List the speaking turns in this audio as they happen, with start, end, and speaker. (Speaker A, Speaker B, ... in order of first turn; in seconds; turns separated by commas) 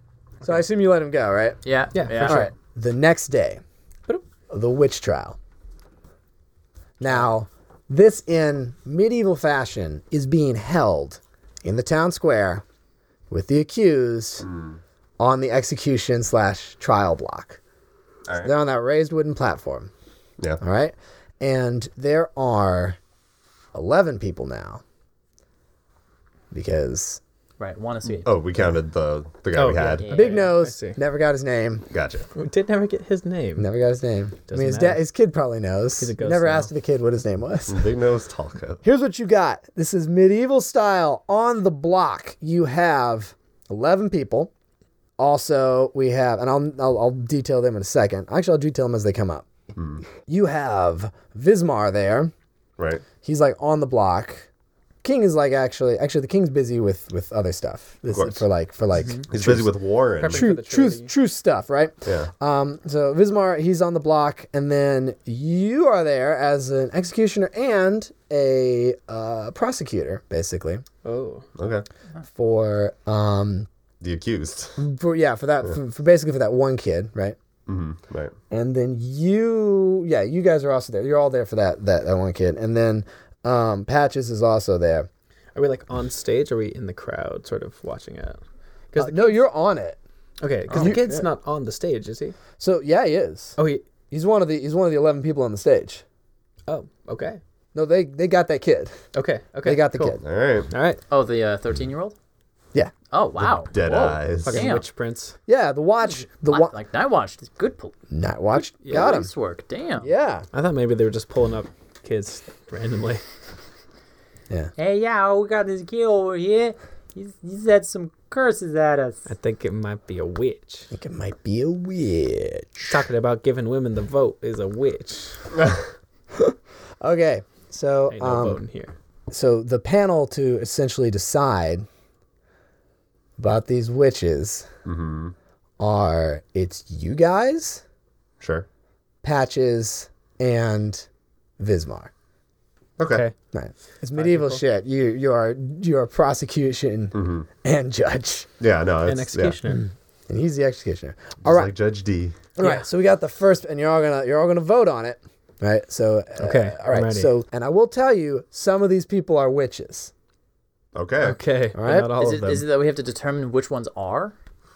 Speaker A: 0.4-1.6, Speaker B: 1.6-2.5, Speaker C: 1.9-2.5, Speaker A: 2.2-3.6, Speaker A: 4.5-5.4, Speaker A: 7.0-12.6, Speaker A: 13.3-14.5, Speaker D: 14.4-14.8, Speaker A: 15.2-17.6, Speaker D: 18.3-18.5, Speaker A: 18.4-19.9, Speaker A: 20.6-23.0, Speaker A: 23.7-24.8, Speaker A: 26.5-27.2, Speaker B: 27.6-28.4, Speaker D: 28.2-30.1, Speaker C: 29.5-31.0, Speaker B: 30.0-30.5, Speaker A: 30.1-31.9, Speaker D: 31.9-32.3, Speaker C: 32.4-33.7, Speaker A: 33.6-37.9, Speaker C: 34.5-35.0, Speaker C: 36.0-36.7, Speaker D: 37.7-38.8, Speaker A: 38.8-44.5, Speaker A: 45.2-49.5, Speaker D: 49.8-50.0, Speaker A: 50.2-52.3, Speaker D: 52.8-53.0, Speaker A: 53.2-54.5, Speaker A: 55.0-70.8, Speaker D: 58.1-58.4, Speaker C: 59.0-59.2, Speaker D: 59.3-60.5, Speaker C: 60.2-61.1, Speaker D: 62.0-62.3, Speaker C: 71.0-71.5, Speaker D: 71.6-71.9, Speaker A: 72.3-73.7, Speaker D: 74.0-74.8, Speaker A: 74.8-77.4, Speaker D: 77.7-78.3, Speaker A: 78.5-85.1, Speaker C: 85.5-88.4, Speaker C: 88.9-89.4, Speaker A: 89.0-90.0, Speaker C: 90.4-92.4, Speaker A: 90.7-91.3, Speaker B: 90.7-91.0, Speaker A: 92.6-93.6, Speaker C: 93.6-93.8, Speaker A: 94.1-96.0, Speaker C: 96.7-97.4, Speaker A: 97.7-99.0, Speaker C: 99.1-100.1, Speaker A: 99.6-100.2, Speaker D: 100.0-100.7, Speaker C: 100.7-101.0, Speaker B: 101.1-102.2, Speaker B: 103.1-104.9, Speaker D: 103.4-104.7, Speaker C: 104.4-105.4, Speaker A: 105.5-106.7, Speaker B: 106.4-108.0, Speaker A: 108.1-109.3, Speaker C: 108.8-109.2, Speaker B: 108.8-110.1, Speaker A: 110.0-110.5, Speaker C: 110.5-113.2, Speaker B: 114.8-119.2, Speaker C: 119.3-120.9, Speaker A: 120.9-123.0, Speaker C: 122.9-125.5, Speaker A: 127.0-128.6, Speaker C: 128.1-128.9, Speaker A: 129.3-131.9, Speaker A: 133.4-134.7, Speaker D: 134.8-135.3, Speaker A: 135.8-137.8, Speaker D: 138.4-138.7, Speaker A: 139.2-141.1, Speaker A: 141.6-142.1, Speaker D: 143.0-143.3, Speaker C: 143.1-143.3, Speaker A: 143.5-148.5, Speaker C: 144.1-144.6, Speaker D: 147.1-147.5, Speaker D: 148.6-149.6, Speaker C: 149.1-149.9, Speaker A: 150.3-151.7, Speaker D: 151.4-152.4, Speaker A: 152.6-160.1, Speaker C: 156.4-157.3, Speaker D: 160.9-161.4, Speaker C: 161.2-162.7, Speaker A: 161.8-162.1, Speaker B: 162.2-164.3